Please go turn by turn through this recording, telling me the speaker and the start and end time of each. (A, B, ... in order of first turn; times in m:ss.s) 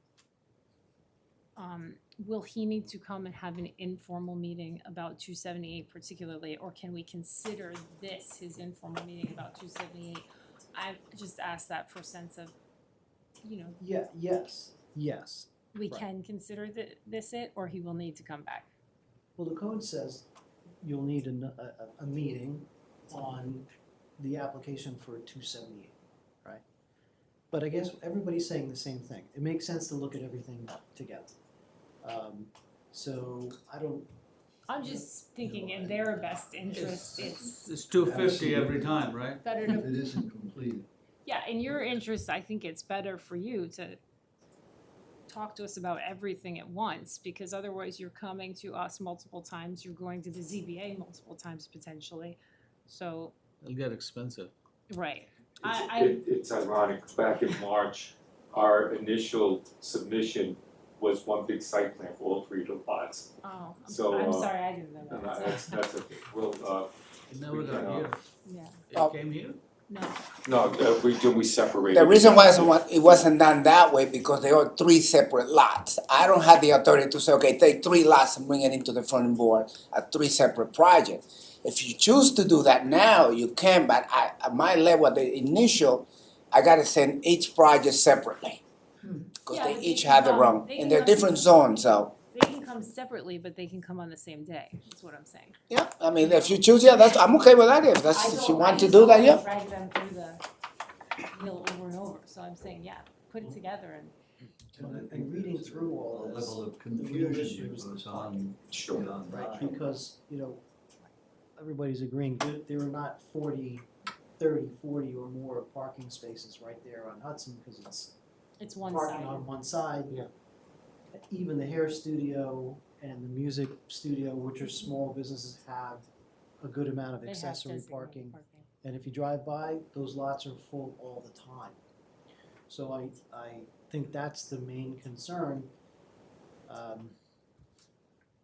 0:01.6-0:12.5 A
0:13.4-0:13.8 A
0:13.8-0:16.1 B
0:15.7-0:18.7 A
0:19.4-0:20.3 B
0:20.8-0:26.6 B
0:27.5-0:31.3 B
0:32.0-0:34.1 B
0:34.7-0:37.7 A
0:34.7-0:35.0 B
0:35.6-0:36.1 C
0:36.7-0:37.2 C
0:36.7-0:39.5 D
0:37.9-0:40.9 C
0:39.4-0:40.2 A
0:41.2-0:44.0 A
0:45.3-0:53.3 A
0:53.6-0:54.5 D
0:54.9-0:56.2 A
0:55.6-1:03.3 E
1:03.4-1:05.8 A
1:03.8-1:08.2 E
1:07.3-1:08.2 D
1:08.4-1:08.8 A
1:08.9-1:09.6 D
1:09.9-1:10.2 A
1:10.4-1:13.2 E
1:11.9-1:28.6 F
1:29.4-1:32.1 F
1:29.5-1:31.4 A
1:32.3-1:35.6 A
1:35.7-1:39.4 F
1:36.2-1:36.6 A
1:38.1-1:40.4 A
1:41.3-1:44.1 A
1:44.7-1:50.0 C
1:44.7-1:50.6 B
1:48.7-1:49.1 E
1:51.6-1:53.8 B
1:54.4-1:58.2 B
1:58.6-1:59.4 A
1:58.8-2:00.2 B
2:01.1-2:06.1 B
2:06.6-2:11.8 B
2:07.2-2:08.7 A
2:12.7-2:15.7 B
2:16.7-2:17.2 B